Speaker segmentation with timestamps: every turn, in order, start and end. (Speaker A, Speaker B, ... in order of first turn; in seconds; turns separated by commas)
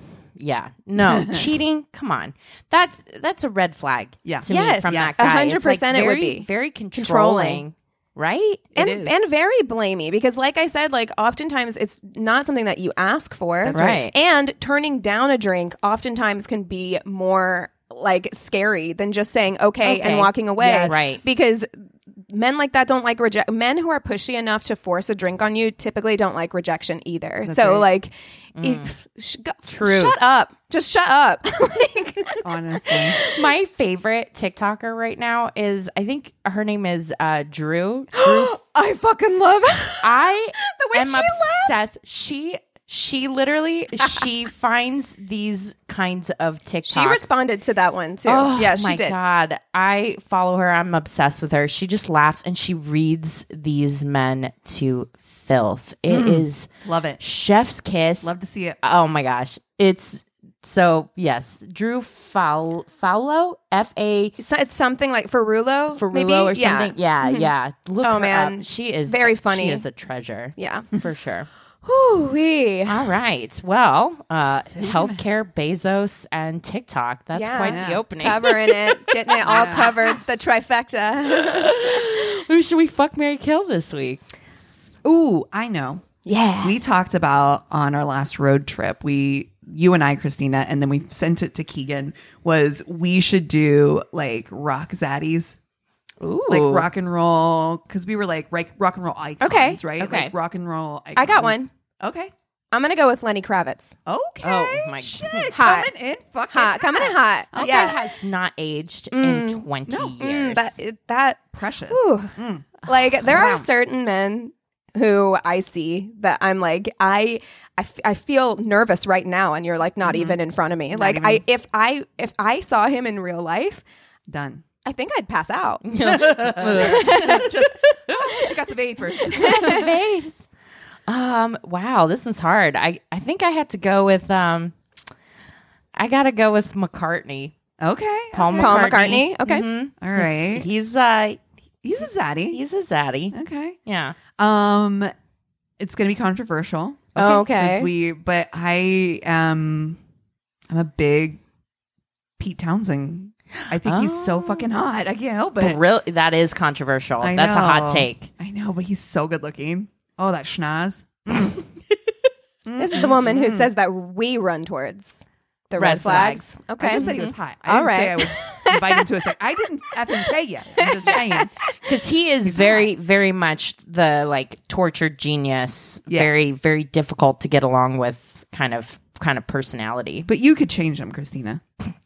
Speaker A: 0.3-8.6, Speaker B: 1.0-1.4, Speaker B: 4.2-5.3, Speaker C: 4.5-7.6, Speaker B: 8.7-9.2, Speaker C: 8.8-33.4, Speaker B: 13.6-14.0, Speaker A: 13.7-14.1, Speaker A: 19.8-20.3, Speaker B: 20.6-21.1, Speaker A: 20.8-21.2, Speaker B: 27.4-27.9, Speaker A: 28.6-28.9, Speaker A: 29.7-30.2, Speaker B: 32.4-33.2, Speaker A: 33.2-38.6, Speaker C: 38.1-41.8, Speaker A: 40.0-47.4, Speaker C: 46.9-49.1, Speaker A: 48.2-56.7, Speaker B: 56.1-57.2, Speaker A: 57.2-58.3, Speaker B: 58.2-58.8, Speaker A: 58.8-64.3, Speaker C: 64.4-67.5, Speaker A: 65.9-71.5, Speaker C: 68.0-69.8, Speaker C: 70.6-70.9, Speaker C: 71.8-73.0, Speaker A: 72.9-79.9, Speaker B: 74.8-75.2, Speaker C: 77.3-82.0, Speaker B: 77.7-78.0, Speaker B: 79.4-80.0, Speaker A: 81.4-84.2, Speaker B: 85.0-86.0, Speaker C: 86.2-86.8, Speaker B: 86.6-95.6, Speaker A: 96.2-96.9, Speaker B: 96.5-102.3, Speaker C: 99.4-99.8, Speaker A: 100.0-100.3, Speaker C: 101.1-101.7, Speaker C: 102.7-104.0, Speaker B: 104.0-108.0, Speaker A: 104.4-105.5, Speaker C: 105.5-105.9, Speaker C: 106.5-108.0, Speaker A: 107.5-110.8, Speaker C: 109.1-109.6, Speaker B: 109.9-110.2, Speaker C: 110.2-123.8, Speaker B: 111.5-113.7, Speaker A: 120.1-120.3, Speaker B: 120.9-121.4, Speaker B: 124.3-124.6, Speaker C: 124.8-127.5, Speaker A: 125.8-127.5, Speaker B: 126.0-129.9, Speaker C: 129.3-129.9, Speaker A: 129.4-130.4, Speaker A: 131.1-134.8, Speaker A: 135.9-137.5, Speaker B: 137.8-138.9, Speaker A: 138.3-141.4, Speaker C: 138.5-139.7, Speaker B: 140.0-140.7, Speaker B: 141.8-142.6, Speaker A: 142.5-143.3, Speaker B: 143.3-143.8, Speaker A: 143.9-144.2, Speaker B: 144.3-145.1, Speaker B: 145.8-150.0, Speaker C: 147.2-147.9, Speaker B: 150.7-151.4, Speaker B: 152.4-155.8, Speaker A: 153.7-154.7, Speaker A: 155.6-158.3, Speaker B: 157.2-161.7, Speaker B: 162.7-163.7, Speaker C: 162.8-169.1, Speaker A: 165.8-167.3, Speaker B: 165.9-171.5, Speaker C: 170.2-171.7, Speaker A: 171.8-180.3, Speaker B: 172.4-172.9, Speaker B: 176.1-176.3, Speaker B: 180.3-181.6